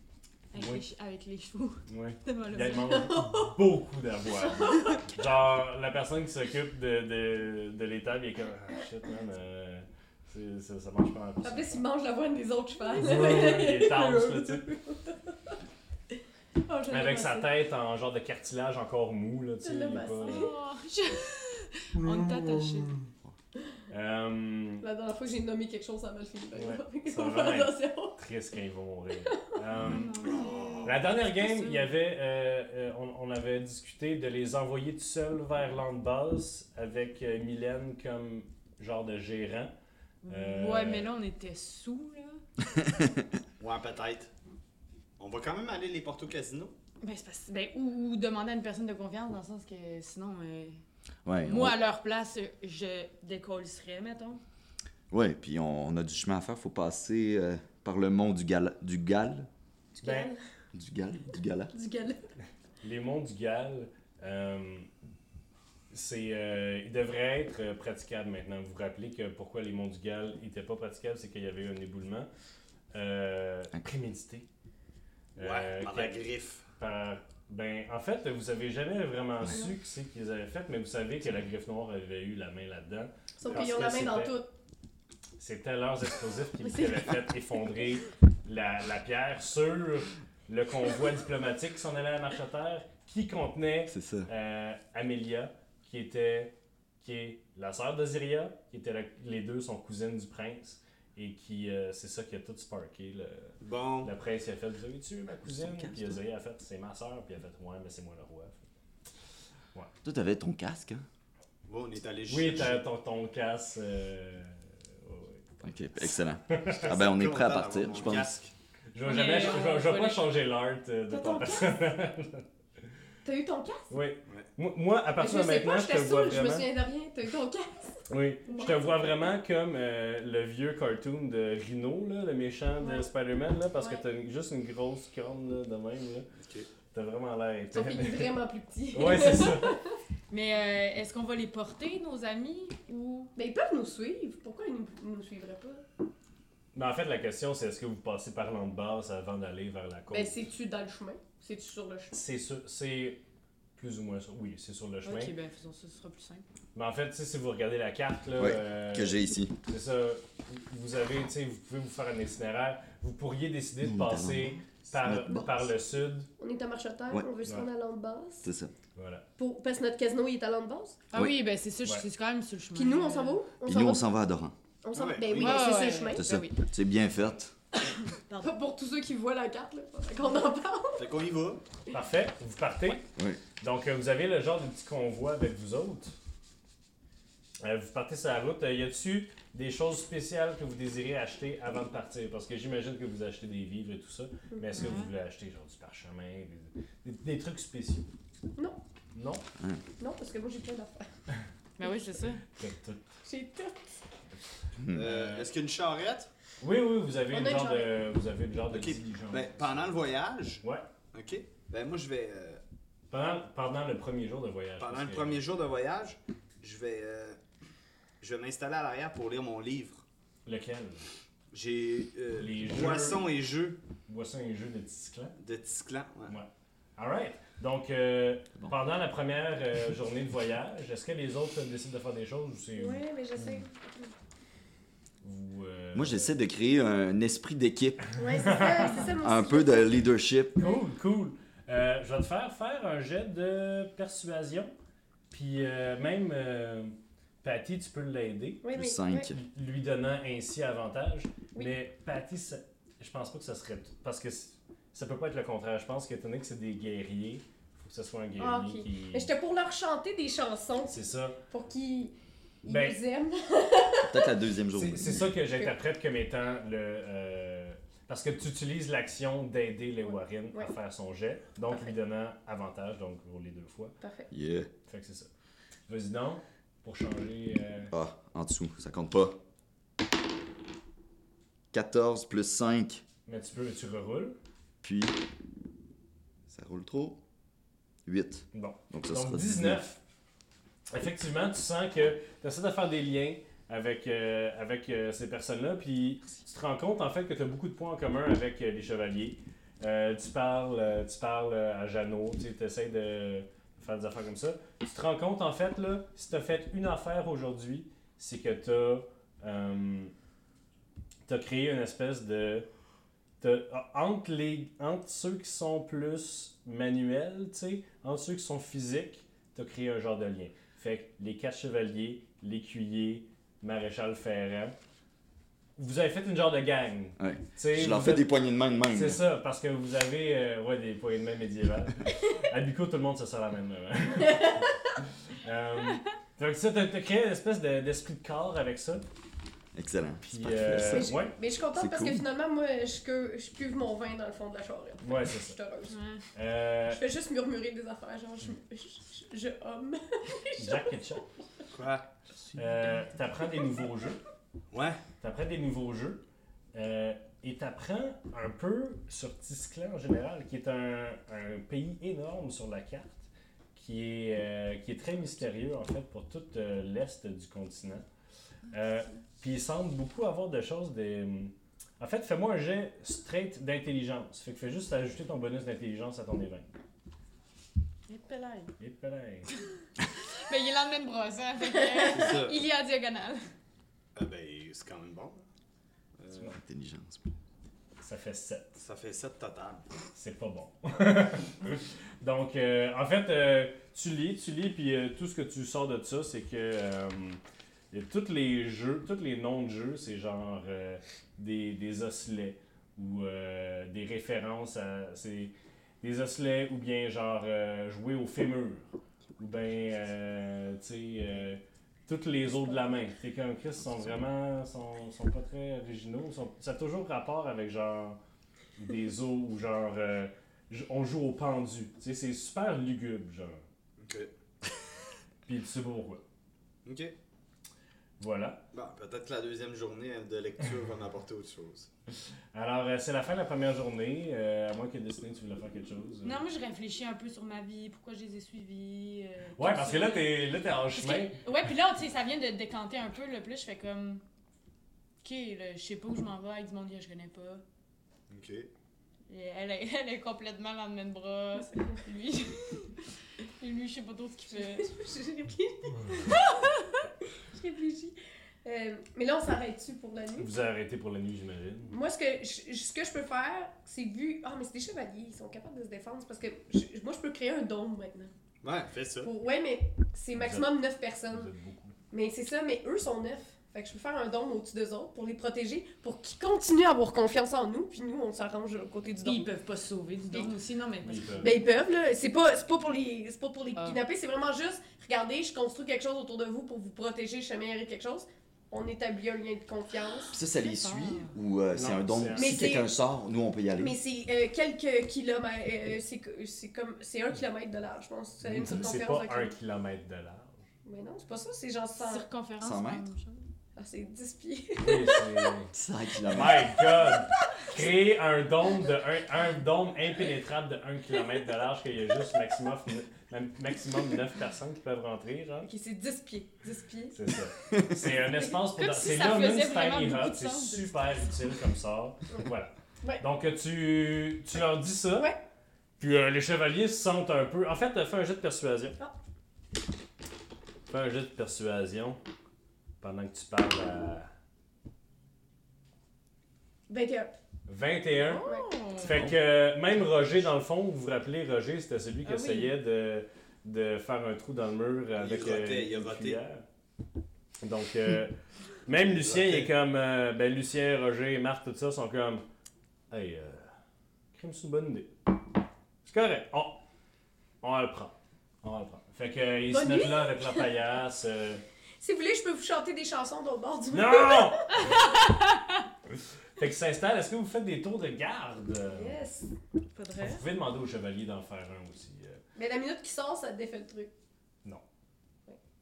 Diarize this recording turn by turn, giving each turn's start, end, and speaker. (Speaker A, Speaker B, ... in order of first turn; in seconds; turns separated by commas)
Speaker A: 0.5-3.0, Speaker B: 0.5-0.8, Speaker B: 1.9-11.8, Speaker C: 2.9-3.6, Speaker C: 4.5-5.0, Speaker C: 11.4-15.5, Speaker B: 12.9-14.7, Speaker C: 16.6-17.5, Speaker B: 16.9-20.5, Speaker C: 19.6-20.5, Speaker A: 20.2-23.0, Speaker B: 23.9-24.8, Speaker C: 24.8-28.2, Speaker B: 26.5-30.1, Speaker A: 29.8-31.9, Speaker D: 30.4-30.8, Speaker B: 30.8-39.7, Speaker A: 40.2-42.4, Speaker B: 40.3-41.1, Speaker E: 42.7-43.2, Speaker D: 43.6-44.3, Speaker D: 45.2-46.7, Speaker A: 47.0-50.8, Speaker E: 51.2-51.8, Speaker A: 51.4-54.4, Speaker E: 55.1-59.5, Speaker C: 59.9-60.4, Speaker B: 60.0-60.3, Speaker E: 60.7-61.7, Speaker C: 61.7-62.3, Speaker B: 62.8-64.9, Speaker B: 65.9-72.3, Speaker B: 72.9-74.5, Speaker B: 75.4-76.2, Speaker D: 75.4-76.6, Speaker B: 76.8-84.4, Speaker C: 83.4-84.5, Speaker B: 85.4-108.6, Speaker C: 86.7-87.2, Speaker E: 93.9-94.3, Speaker D: 103.6-104.1, Speaker E: 105.5-106.2, Speaker E: 110.0-111.0, Speaker D: 111.7-112.8, Speaker B: 112.3-115.5, Speaker E: 115.6-118.3, Speaker B: 116.5-116.9, Speaker D: 116.8-118.5, Speaker B: 118.9-122.4, Speaker A: 119.0-120.3, Speaker C: 121.1-121.8, Speaker C: 123.2-123.9, Speaker B: 123.9-126.7, Speaker C: 125.2-128.9, Speaker B: 128.1-136.3, Speaker C: 132.8-133.1, Speaker C: 133.8-134.0, Speaker D: 136.4-136.7, Speaker B: 136.9-138.4, Speaker C: 137.7-139.9, Speaker B: 138.9-139.8, Speaker A: 140.3-143.3, Speaker C: 143.3-145.8, Speaker B: 146.7-150.4, Speaker C: 150.1-152.2, Speaker B: 152.1-153.2, Speaker B: 153.8-155.3, Speaker A: 155.0-156.4, Speaker B: 156.7-166.3, Speaker E: 158.4-159.5, Speaker E: 163.8-165.7, Speaker C: 166.4-168.5, Speaker E: 168.4-168.7, Speaker B: 168.9-169.2, Speaker C: 169.4-171.0, Speaker A: 171.1-173.4, Speaker C: 172.7-174.1, Speaker E: 173.7-174.5, Speaker C: 174.8-176.2, Speaker D: 174.9-175.8, Speaker A: 175.3-176.6, Speaker E: 176.1-177.5, Speaker A: 178.2-178.5, Speaker C: 178.4-181.1, Speaker D: 181.0-181.6, Speaker B: 181.9-183.0, Speaker E: 183.2-183.4, Speaker B: 183.6-186.2, Speaker B: 187.6-198.1, Speaker C: 194.5-194.9, Speaker A: 194.7-195.1, Speaker B: 199.1-199.4, Speaker C: 200.0-201.1, Speaker A: 201.8-202.4, Speaker B: 202.5-203.0, Speaker C: 203.2-203.9, Speaker E: 204.8-205.1, Speaker D: 204.9-206.3, Speaker B: 204.9-205.5, Speaker B: 206.6-210.8, Speaker C: 207.3-207.9, Speaker D: 208.7-212.6, Speaker B: 213.1-215.4, Speaker D: 214.8-217.4, Speaker D: 218.2-220.0, Speaker B: 220.4-221.1, Speaker D: 221.5-223.8, Speaker B: 222.3-223.3, Speaker B: 224.1-225.3, Speaker D: 225.4-226.3, Speaker B: 226.3-233.6, Speaker C: 232.8-234.1, Speaker B: 235.2-236.3, Speaker E: 235.9-238.1, Speaker C: 238.2-240.1, Speaker B: 238.3-239.1, Speaker E: 239.1-240.6, Speaker B: 240.6-244.7, Speaker B: 245.3-248.6, Speaker C: 248.6-249.3, Speaker E: 248.7-249.3, Speaker B: 249.3-259.3, Speaker C: 258.4-264.3, Speaker B: 260.9-261.4, Speaker B: 262.7-263.0, Speaker E: 264.0-265.3, Speaker B: 264.7-273.9, Speaker C: 265.2-265.7, Speaker C: 270.0-270.7, Speaker C: 271.7-271.9, Speaker C: 274.0-274.3, Speaker E: 274.3-274.7, Speaker B: 274.9-275.3, Speaker B: 275.9-277.9, Speaker E: 277.9-279.4, Speaker E: 281.7-283.0, Speaker B: 283.2-284.4, Speaker E: 284.8-285.2, Speaker E: 286.5-287.2, Speaker E: 288.1-289.8, Speaker B: 288.5-290.0, Speaker B: 290.9-310.1, Speaker B: 311.2-312.7, Speaker B: 313.4-324.7, Speaker B: 325.8-328.3, Speaker E: 327.2-329.2, Speaker B: 328.9-334.7, Speaker C: 334.1-334.7, Speaker B: 335.2-339.0, Speaker E: 339.7-341.1, Speaker B: 340.2-341.3, Speaker C: 340.9-345.9, Speaker E: 341.7-342.2, Speaker B: 345.0-345.6, Speaker A: 345.9-346.2, Speaker B: 346.3-347.0, Speaker C: 346.9-351.2, Speaker B: 350.6-351.2, Speaker D: 351.7-352.1, Speaker B: 352.5-354.2, Speaker D: 354.7-355.0, Speaker B: 355.2-356.2, Speaker B: 356.7-368.0, Speaker B: 368.7-376.7, Speaker A: 378.1-378.7, Speaker B: 378.8-379.5, Speaker A: 380.4-383.4, Speaker D: 382.1-382.6, Speaker D: 384.1-385.4, Speaker D: 386.2-386.5, Speaker E: 386.4-387.2, Speaker B: 388.0-388.8, Speaker D: 388.8-389.8, Speaker B: 390.1-418.2, Speaker B: 418.8-423.6, Speaker D: 424.0-424.3, Speaker B: 425.4-426.2, Speaker D: 426.8-427.1, Speaker B: 428.2-428.6, Speaker D: 428.7-431.9, Speaker B: 432.5-436.4, Speaker A: 436.2-440.4, Speaker B: 439.6-441.4, Speaker A: 440.9-444.2, Speaker A: 445.2-447.6, Speaker D: 448.3-448.7, Speaker A: 449.3-454.9, Speaker C: 454.5-456.6, Speaker C: 457.5-460.5, Speaker B: 460.4-462.0, Speaker C: 461.9-468.3, Speaker D: 468.6-469.3, Speaker C: 469.2-471.5, Speaker B: 470.3-470.8, Speaker B: 471.3-471.9, Speaker C: 472.1-479.5, Speaker A: 479.2-481.6, Speaker B: 481.0-481.6, Speaker C: 481.4-490.4, Speaker A: 483.8-484.0, Speaker E: 490.3-494.0, Speaker A: 490.5-491.4, Speaker B: 491.7-492.6, Speaker C: 492.3-492.9, Speaker C: 493.8-499.5, Speaker B: 498.4-500.6, Speaker C: 500.8-502.3, Speaker A: 501.9-503.4, Speaker E: 502.6-503.0, Speaker C: 503.8-505.5, Speaker B: 504.8-505.7, Speaker E: 505.7-506.8, Speaker B: 506.3-515.7, Speaker C: 515.6-517.2, Speaker B: 517.1-525.4, Speaker E: 517.7-518.0, Speaker C: 518.4-518.6, Speaker A: 518.8-521.1, Speaker B: 526.0-529.0, Speaker B: 530.9-532.2, Speaker B: 533.0-534.3, Speaker C: 536.9-537.3, Speaker B: 537.7-546.6, Speaker C: 538.2-538.7, Speaker A: 538.3-539.1, Speaker E: 539.0-539.4, Speaker C: 542.2-542.7, Speaker D: 545.1-546.4, Speaker B: 547.6-552.4, Speaker D: 549.1-549.7, Speaker B: 553.1-553.7, Speaker B: 554.3-555.1, Speaker B: 556.0-556.8, Speaker B: 557.6-561.6, Speaker C: 559.7-560.7, Speaker C: 562.0-565.1, Speaker B: 563.9-564.9, Speaker B: 566.6-569.2, Speaker C: 568.9-569.5, Speaker A: 569.9-570.4, Speaker B: 570.2-572.4, Speaker C: 572.5-574.1